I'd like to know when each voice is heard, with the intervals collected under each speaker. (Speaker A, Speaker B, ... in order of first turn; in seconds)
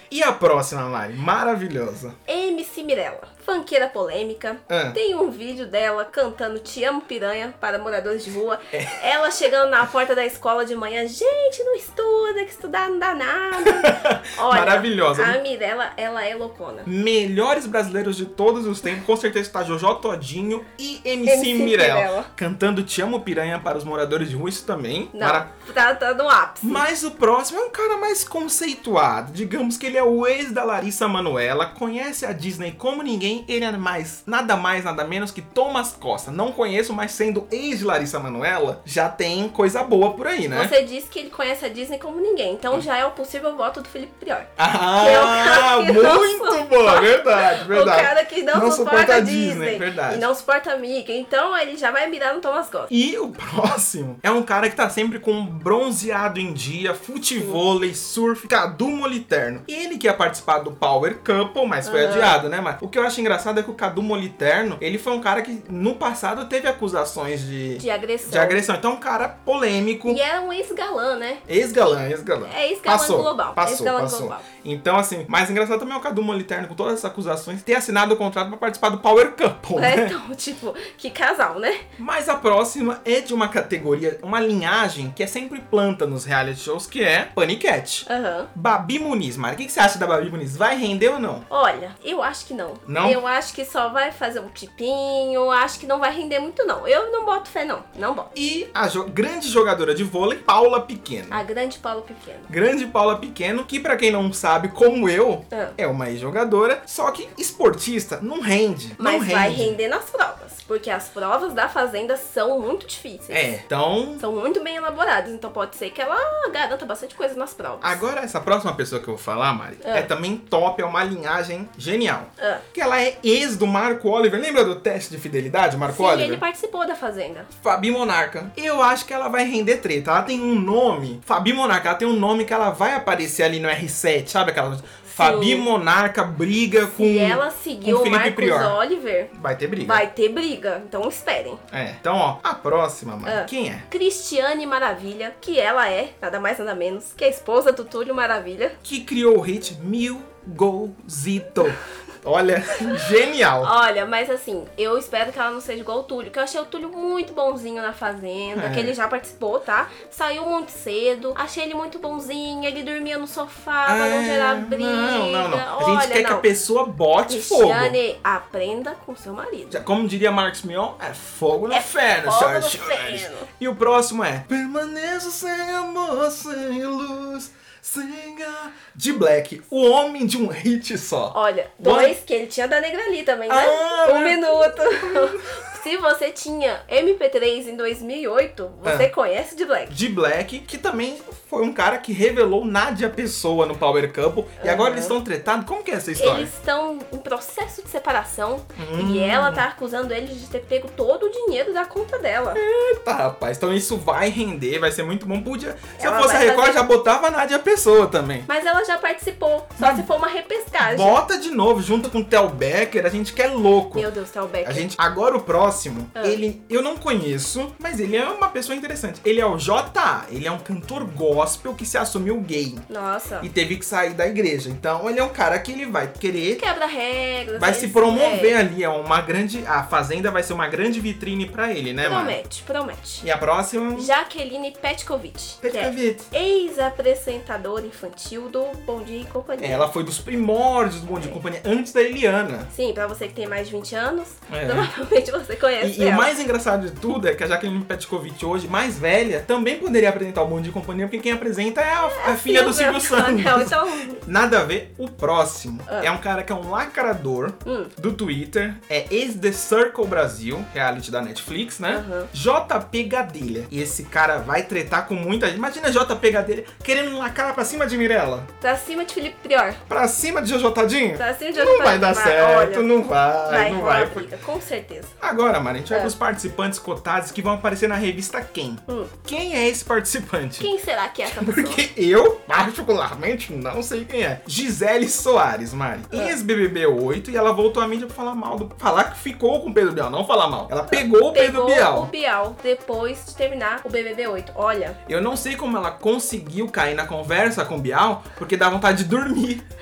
Speaker A: 0.1-2.1, 4.7-5.0, 8.7-9.0, 13.7-15.4, 16.9-25.5, 26.6-40.7, 44.6-50.3, 52.9-70.2, 71.5-80.2, 82.0-91.5, 92.9-93.2, 98.3-101.4, 102.5-109.8, 113.3-114.2, 117.8-126.4, 127.6-138.8, 139.3-140.0, 141.7-143.9, 148.8-153.7, 158.6-159.0, 163.9-168.0, 169.7-182.2, 183.5-185.6, 188.8-189.1, 189.9-196.5, 198.8-199.7, 202.5-208.5, 209.8-210.1, 210.8-214.1, 214.7-222.9, 223.4-226.6, 227.6-232.4, 233.2-234.1, 235.6-236.3, 239.6-242.7, 244.5-244.9, 245.8-268.5, 269.9-274.3, 275.2-280.7, 281.2-292.1, 295.1-299.6
Speaker B: 2.3-16.9, 21.2-22.3, 25.1-26.8, 40.5-52.9, 61.8-62.4, 67.8-68.6, 70.1-71.4, 72.5-74.4, 79.8-81.8, 88.1-88.5, 91.5-98.3, 101.3-102.5, 109.0-113.5, 114.2-118.0, 119.8-120.1, 125.9-127.5, 135.1-135.7, 136.9-139.3, 139.8-141.6, 143.2-148.8, 153.6-166.5, 167.3-169.8, 171.7-173.5, 181.3-189.9, 194.6-195.2, 196.2-202.6, 206.0-206.8, 208.5-211.2, 213.9-214.9, 216.2-216.4, 222.9-223.5, 226.6-228.6, 232.0-233.2, 233.9-239.9, 242.7-246.3, 252.0-254.2, 257.7-257.9, 261.9-262.3, 268.6-269.8, 271.2-272.9, 273.5-275.1, 278.9-279.1, 280.6-281.8, 286.1-286.4, 290.9-295.0